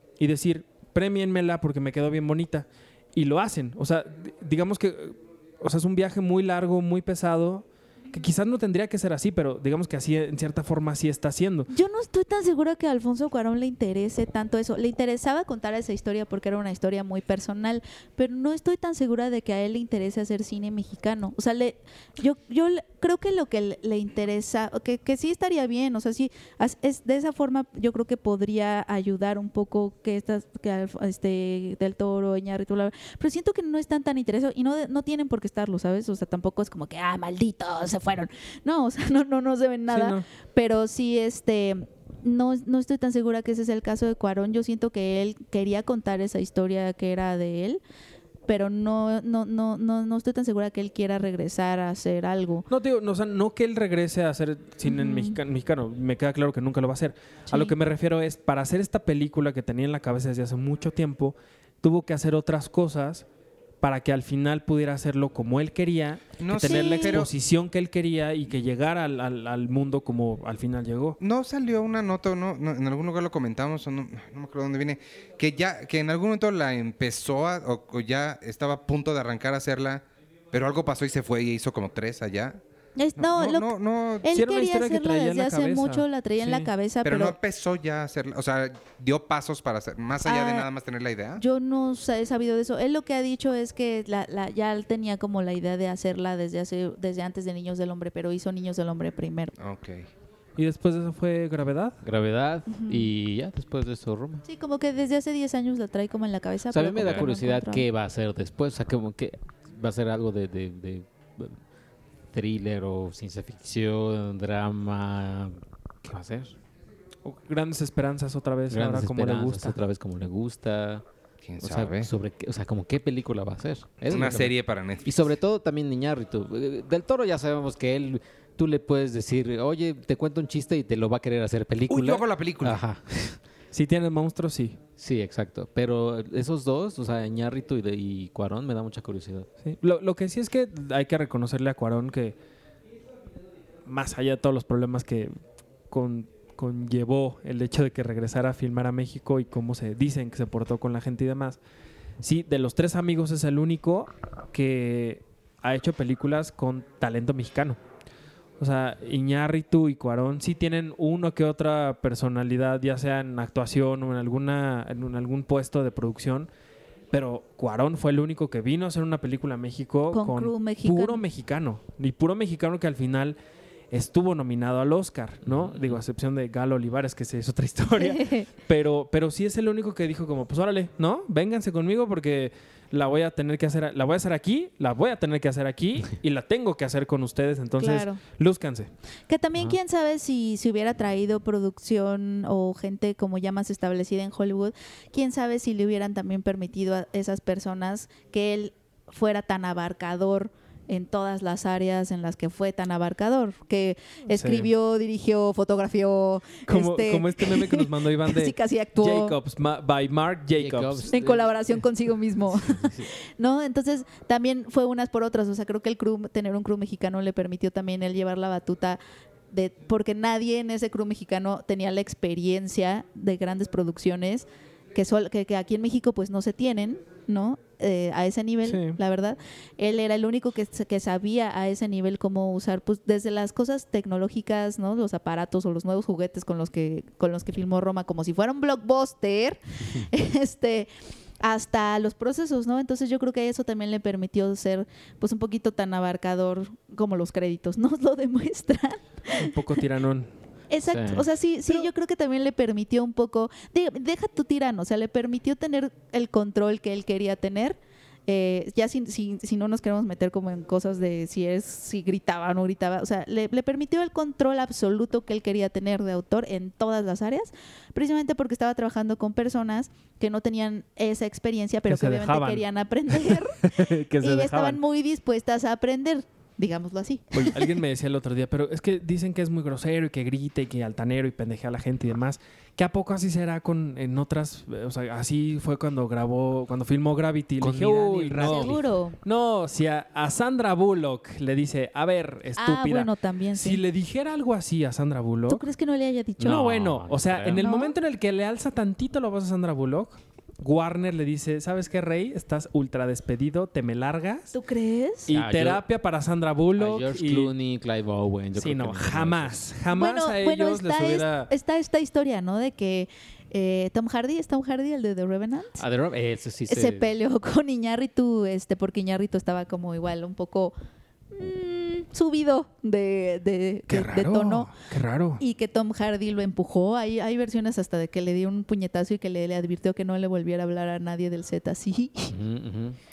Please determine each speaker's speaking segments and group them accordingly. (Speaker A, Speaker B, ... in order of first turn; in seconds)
Speaker A: 0.2-11.7, 39.9-40.2, 52.7-63.2, 63.8-71.2, 84.3-86.7, 100.6-102.0, 117.2-119.8, 133.7-134.8, 139.6-142.3, 143.8-145.3, 145.9-151.6, 152.2-157.8, 158.6-166.5, 167.1-173.4, 173.9-188.9, 204.3-204.7, 206.7-211.1, 228.7-229.0, 249.3-250.3, 271.9-274.8, 277.3-295.6, 296.4-304.6, 305.3-307.5, 308.5-311.5, 323.9-325.4
Speaker B: 11.7-47.8, 48.5-52.6, 54.8-55.4, 66.6-67.2, 83.0-87.3, 90.2-90.7, 91.4-99.5, 102.7-103.1, 104.5-107.8, 170.1-171.2, 178.0-178.5, 187.8-188.2, 189.3-209.4, 211.1-219.0, 219.5-240.9, 241.4-249.5, 250.7-277.7, 288.4-289.2, 292.6-293.8, 295.5-296.6, 297.6-297.9, 304.5-305.3, 309.9-315.8, 316.7-320.7, 321.3-324.7, 325.4-332.3
Speaker C: 66.4-67.3, 71.2-82.6, 83.2-84.3, 87.0-91.4, 99.6-100.1, 107.0-107.3, 121.4-122.1, 124.1-125.3, 131.9-132.8
Speaker D: 102.0-104.4, 106.7-111.6, 112.3-116.5, 118.7-121.0, 121.6-133.4, 135.0-139.5, 175.4-176.0, 210.6-211.9, 212.5-213.1, 250.9-251.3, 287.6-288.8, 296.4-297.6, 305.3-305.8, 306.8-309.6, 315.8-317.1, 332.3-333.0